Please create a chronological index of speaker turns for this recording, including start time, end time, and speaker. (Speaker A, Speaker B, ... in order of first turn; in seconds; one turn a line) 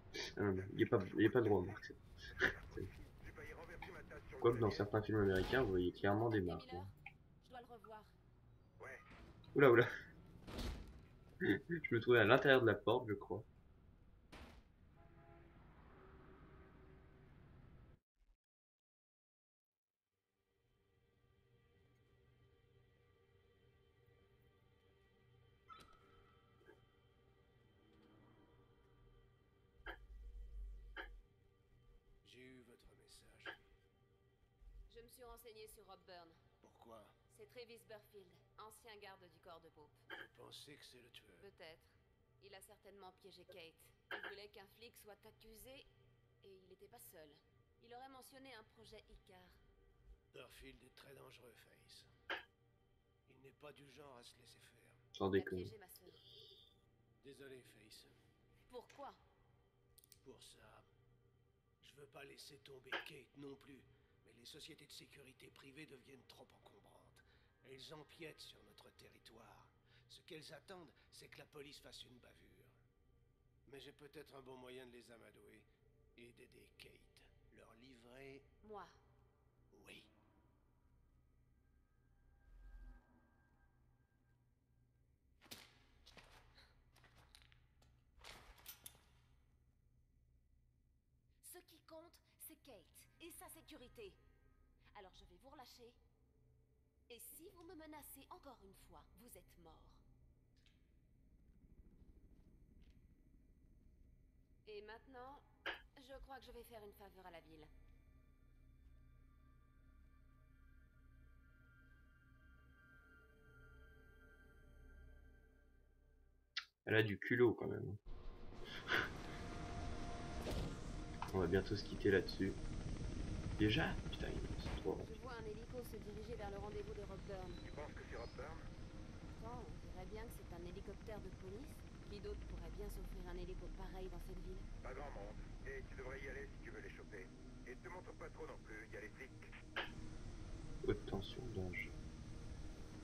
Speaker A: 0.3-2.9
Speaker A: 4.4-6.9
Speaker B: 6.1-8.1
Speaker A: 9.5-9.9
Speaker A: 11.4-13.4
Speaker C: 32.2-33.6
Speaker B: 34.9-36.4
Speaker C: 36.6-37.1
Speaker B: 37.3-40.0
Speaker C: 40.1-41.5
Speaker B: 41.3-45.9
Speaker B: 46.4-49.6
Speaker C: 50.3-52.1
Speaker C: 53.3-55.0
Speaker A: 55.1-55.7
Speaker B: 55.4-56.2
Speaker C: 57.2-58.1
Speaker B: 58.7-59.2
Speaker C: 60.2-60.9
Speaker C: 61.8-72.8
Speaker C: 73.7-78.5
Speaker B: 78.6-78.9
Speaker C: 79.7-80.1
Speaker B: 91.4-94.2
Speaker B: 94.9-96.0
Speaker B: 97.1-100.0
Speaker B: 104.6-107.7
Speaker A: 116.8-118.0
Speaker A: 121.3-122.6
Speaker A: 123.6-125.1
Speaker B: 125.0-127.6
Speaker D: 127.7-128.5
Speaker B: 129.3-134.7
Speaker D: 134.9-139.3
Speaker A: 140.8-141.9